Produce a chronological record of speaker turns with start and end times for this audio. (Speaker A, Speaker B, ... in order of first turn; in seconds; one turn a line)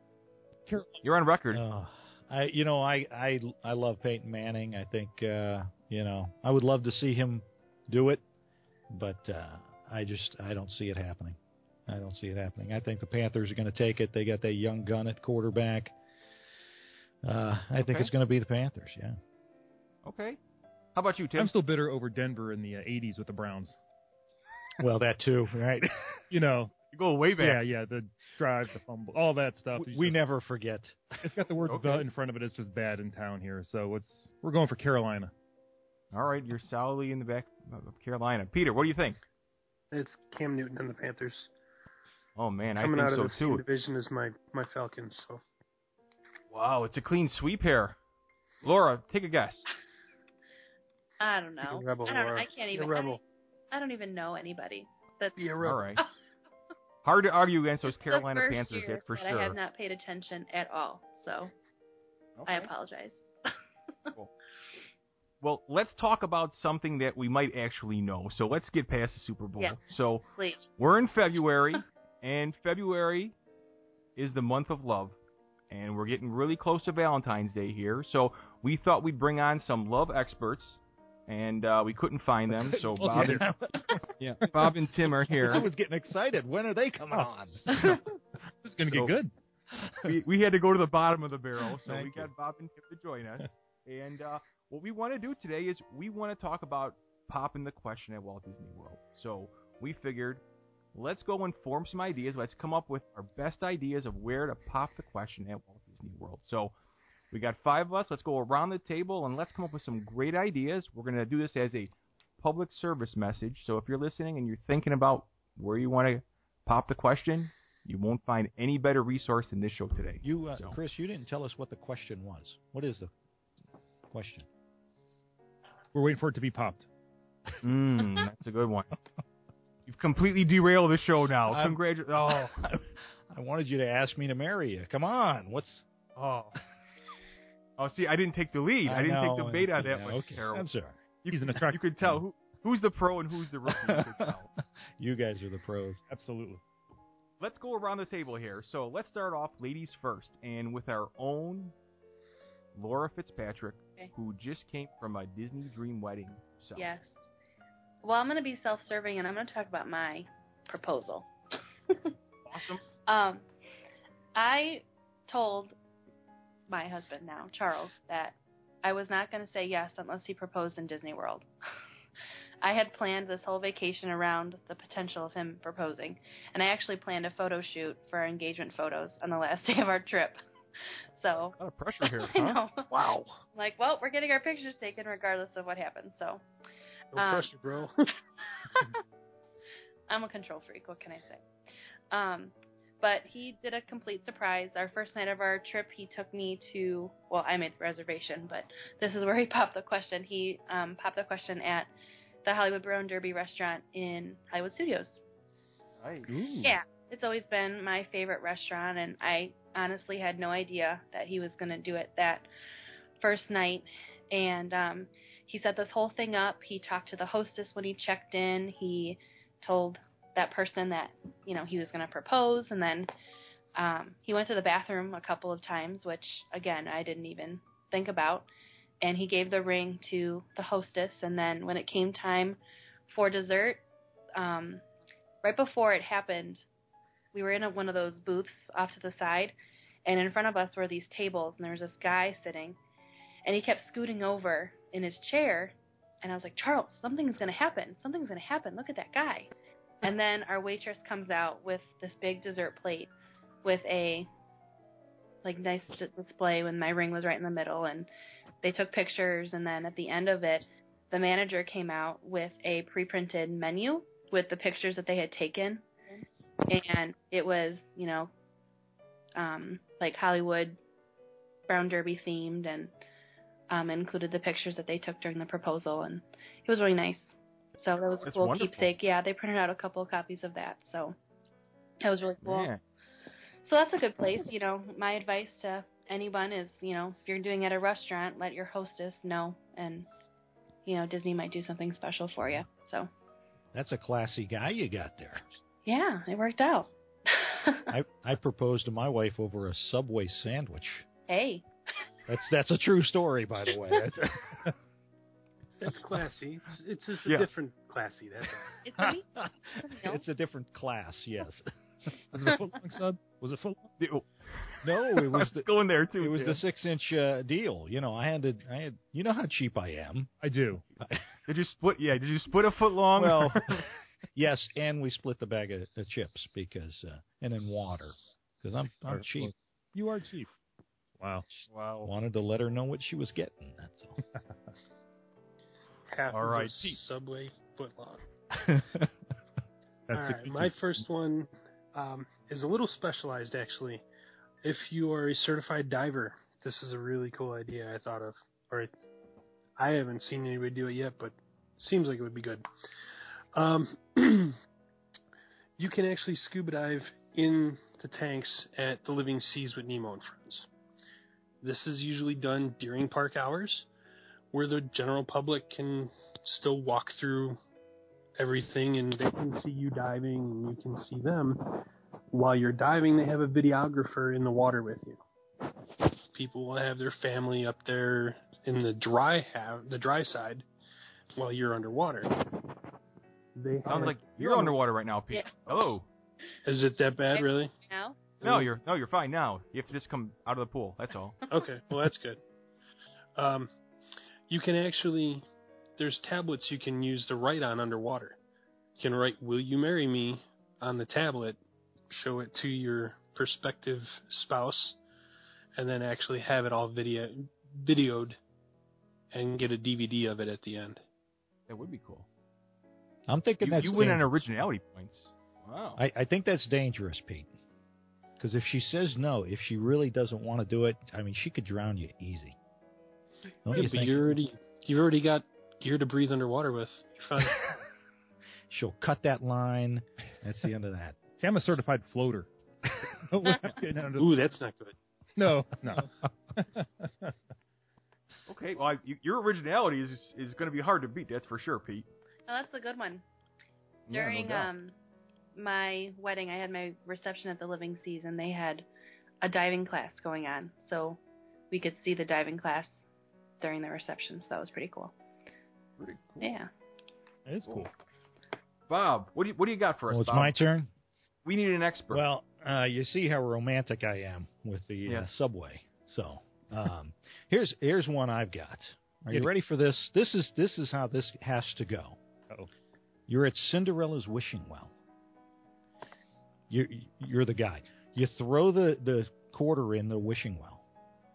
Speaker A: 0.7-1.0
Speaker B: 1.0-1.6
Speaker C: 1.5-8.2
Speaker C: 8.9-15.9
Speaker C: 17.2-19.2
Speaker B: 17.8-18.1
Speaker B: 20.1-20.4
Speaker B: 20.9-21.5
Speaker A: 21.4-23.8
Speaker C: 24.8-26.2
Speaker A: 26.3-26.8
Speaker B: 26.9-27.6
Speaker A: 27.4-30.2
Speaker C: 29.8-31.4
Speaker A: 31.2-35.3
Speaker B: 31.7-32.1
Speaker B: 36.1-39.2
Speaker D: 39.9-41.5
Speaker B: 42.4-43.6
Speaker D: 42.8-45.4
Speaker B: 46.5-48.0
Speaker B: 48.6-49.6
Speaker E: 51.2-53.2
Speaker D: 51.6-53.2
Speaker E: 53.7-55.4
Speaker D: 55.4-55.9
Speaker B: 55.6-56.0
Speaker B: 57.0-59.6
Speaker E: 57.9-61.5
Speaker B: 62.4-62.7
Speaker E: 62.5-63.5
Speaker B: 65.4-70.2
Speaker E: 70.4-70.6
Speaker B: 70.8-73.3
Speaker B: 74.2-75.2
Speaker B: 75.7-83.4
Speaker C: 82.6-84.1
Speaker A: 83.0-83.5
Speaker B: 84.2-85.7
Speaker C: 85.4-87.9
Speaker A: 87.1-89.3
Speaker C: 89.7-90.2
Speaker B: 90.0-100.4
Speaker C: 91.8-92.3
Speaker B: 101.0-106.7
Speaker B: 107.3-120.8
Speaker C: 120.2-123.1
Speaker C: 124.1-124.5
Speaker A: 125.9-126.9
Speaker B: 127.6-128.9
Speaker B: 129.9-132.6
Speaker C: 131.5-135.8
Speaker B: 136.2-136.6
Speaker B: 137.8-140.7
Speaker C: 138.8-141.0
Speaker B: 141.2-144.5
Speaker A: 141.3-142.2
Speaker C: 143.7-144.3
Speaker C: 145.0-146.0
Speaker A: 146.1-146.6
Speaker B: 147.4-151.7
Speaker B: 152.8-156.9
Speaker E: 156.8-157.2
Speaker E: 158.0-161.3
Speaker E: 161.9-162.1
Speaker B: 162.5-162.8
Speaker E: 163.1-163.5
Speaker E: 164.3-165.8
Speaker E: 166.7-171.5
Speaker E: 172.6-180.4
Speaker E: 180.9-182.9
Speaker B: 181.3-182.6
Speaker D: 182.9-183.4
Speaker E: 183.5-186.4
Speaker D: 187.1-188.1
Speaker E: 187.2-187.5
Speaker E: 188.5-189.0
Speaker E: 190.1-191.5
Speaker E: 192.1-201.9
Speaker E: 202.4-205.2
Speaker B: 206.0-206.3
Speaker A: 206.3-206.8
Speaker E: 206.6-212.5
Speaker E: 213.2-223.1
Speaker E: 223.8-228.5
Speaker E: 229.0-233.8
Speaker E: 234.3-234.8
Speaker E: 235.4-236.7
Speaker E: 237.3-242.8
Speaker E: 243.4-249.5
Speaker E: 250.0-253.1
Speaker E: 253.6-254.3
Speaker E: 255.4-258.1
Speaker E: 258.6-268.3
Speaker E: 269.4-270.8
Speaker E: 271.7-272.9
Speaker E: 273.7-281.2
Speaker B: 278.3-278.9
Speaker E: 282.0-282.7
Speaker B: 282.4-282.8
Speaker E: 283.6-290.1
Speaker E: 290.9-293.1
Speaker C: 293.7-295.4
Speaker E: 295.9-297.9
Speaker C: 297.9-301.1
Speaker E: 301.3-301.6
Speaker C: 302.3-304.7
Speaker D: 305.8-308.8
Speaker E: 308.8-309.2
Speaker C: 309.0-311.7
Speaker E: 309.8-310.2
Speaker A: 312.3-313.9
Speaker B: 314.0-316.6
Speaker C: 314.8-315.7
Speaker C: 316.2-320.3
Speaker A: 320.4-320.8
Speaker C: 321.0-321.3
Speaker B: 321.5-323.9
Speaker C: 323.2-329.5
Speaker A: 329.1-330.5
Speaker A: 331.2-331.5
Speaker C: 331.6-334.2
Speaker B: 331.7-332.1
Speaker D: 336.1-338.2
Speaker B: 336.3-337.0
Speaker C: 338.5-339.1
Speaker A: 340.1-340.8
Speaker D: 340.1-344.1
Speaker D: 344.6-348.9
Speaker D: 349.8-352.6
Speaker D: 353.6-354.6
Speaker D: 355.8-360.7
Speaker D: 361.6-363.9
Speaker D: 364.5-367.6
Speaker D: 368.4-375.2
Speaker D: 376.3-380.7
Speaker D: 381.4-382.3
Speaker D: 383.6-384.8
Speaker B: 383.9-386.1
Speaker D: 386.6-387.7
Speaker E: 387.3-388.2
Speaker D: 388.4-388.7
Speaker B: 388.4-391.4
Speaker D: 391.5-392.4
Speaker D: 393.4-393.7
Speaker D: 394.5-395.4
Speaker D: 396.0-398.4
Speaker D: 399.0-401.6
Speaker D: 402.1-405.0
Speaker D: 405.8-408.4
Speaker D: 409.3-411.0
Speaker B: 411.7-412.3
Speaker C: 413.3-414.4
Speaker B: 413.6-416.0
Speaker C: 416.0-417.5
Speaker C: 418.4-422.6
Speaker C: 423.6-424.4
Speaker D: 423.7-427.8
Speaker C: 428.7-431.2
Speaker A: 431.3-432.5
Speaker A: 433.2-434.4
Speaker D: 434.2-435.0
Speaker A: 435.4-437.3
Speaker B: 438.5-442.1
Speaker E: 442.5-443.2
Speaker B: 444.1-444.7
Speaker E: 444.1-444.9
Speaker E: 445.6-448.9
Speaker E: 449.4-451.2
Speaker E: 451.7-453.0
Speaker E: 453.6-455.1
Speaker B: 456.0-456.5
Speaker E: 456.4-456.7
Speaker A: 457.5-457.9
Speaker B: 458.9-460.6
Speaker C: 460.1-460.9
Speaker B: 461.4-462.2
Speaker C: 462.1-472.2
Speaker C: 473.3-474.9
Speaker C: 476.7-480.8